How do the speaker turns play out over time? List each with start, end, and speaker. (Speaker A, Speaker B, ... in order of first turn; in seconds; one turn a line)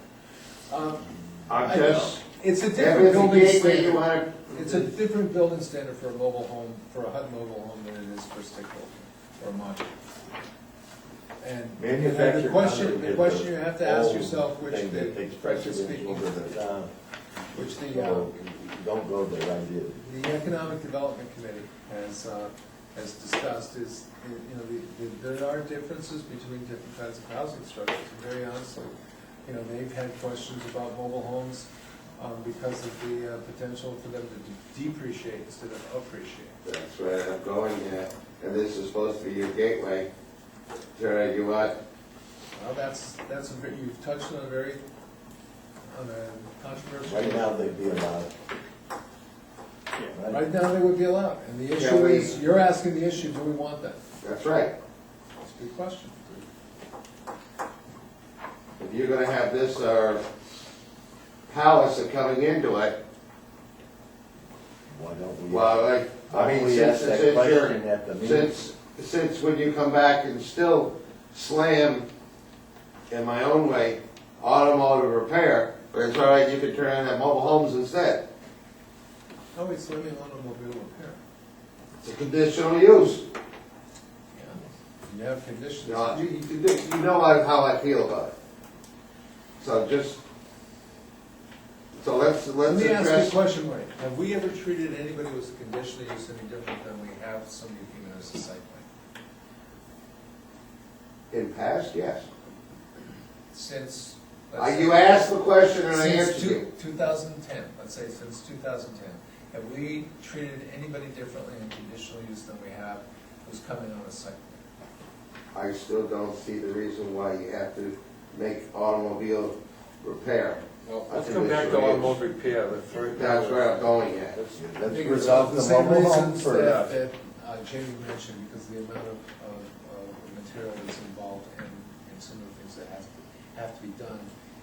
Speaker A: 0.7-9.9
Speaker B: 1.5-2.2
Speaker B: 2.7-4.9
Speaker A: 11.4-16.6
Speaker C: 11.8-16.9
Speaker A: 17.5-18.3
Speaker C: 17.6-20.0
Speaker A: 20.0-28.9
Speaker A: 29.4-36.5
Speaker B: 36.6-40.1
Speaker B: 40.9-41.8
Speaker A: 42.5-44.8
Speaker A: 45.9-48.1
Speaker C: 47.0-48.3
Speaker C: 50.1-50.4
Speaker A: 50.3-54.0
Speaker B: 51.7-52.4
Speaker B: 54.2-54.7
Speaker A: 55.4-56.4
Speaker B: 58.8-60.2
Speaker B: 61.5-63.0
Speaker C: 64.9-68.5
Speaker B: 65.5-72.1
Speaker B: 73.1-78.3
Speaker A: 79.5-81.2
Speaker B: 82.0-83.3
Speaker A: 84.3-86.2
Speaker B: 85.8-88.3
Speaker B: 89.6-90.2
Speaker B: 92.0-93.3
Speaker A: 92.6-98.8
Speaker B: 101.3-102.3
Speaker A: 103.5-114.6
Speaker B: 104.6-106.7
Speaker B: 115.5-122.2
Speaker D: 120.8-124.6
Speaker B: 123.1-124.4
Speaker C: 124.5-126.8
Speaker A: 124.9-134.3
Speaker D: 126.6-126.9